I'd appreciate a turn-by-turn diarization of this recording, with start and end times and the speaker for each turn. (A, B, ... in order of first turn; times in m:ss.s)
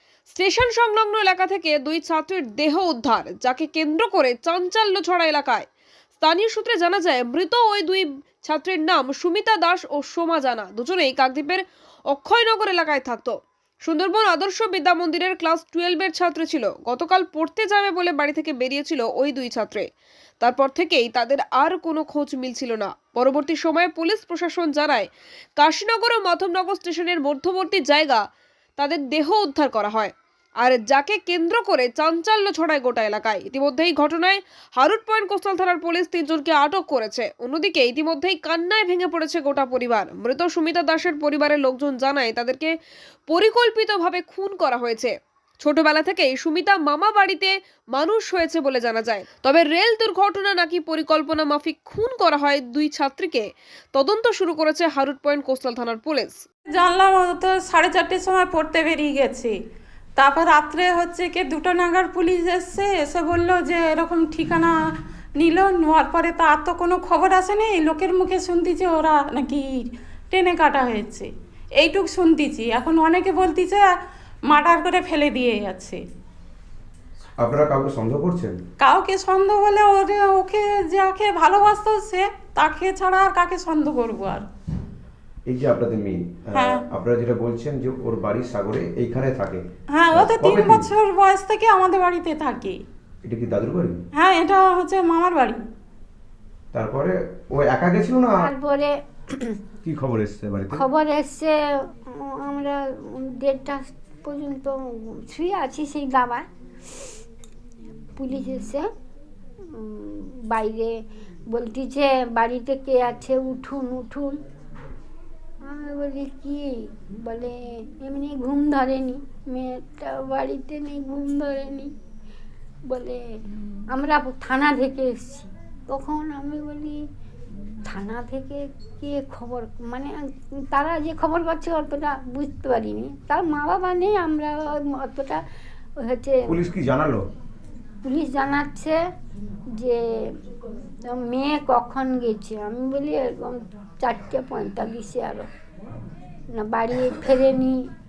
0:00.3-0:05.7 A
0:06.2-0:19.9 A
0:20.4-0:28.2 A
0:28.8-0:42.8 A
0:43.3-0:56.4 A
0:56.7-0:59.5 B
1:00.2-1:04.7 B
1:05.4-1:13.9 B
1:14.5-1:16.0 B
1:17.4-1:18.6 C
1:18.8-1:24.4 B
1:25.5-1:30.9 C
1:26.5-1:26.8 B
1:29.9-1:32.8 B
1:33.2-1:34.0 C
1:34.1-1:35.6 B
1:36.7-1:38.5 C
1:38.4-1:39.6 D
1:39.8-1:40.8 C
1:40.7-1:46.4 D
1:48.2-1:48.8 D
1:49.7-1:51.0 D
1:51.5-1:54.4 D
1:55.6-2:01.9 D
2:02.9-2:03.2 D
2:03.9-2:07.0 D
2:07.9-2:15.4 D
2:16.0-2:16.5 D
2:16.5-2:17.2 C
2:18.0-2:19.0 D
2:21.1-2:25.5 D
2:26.5-2:27.8 D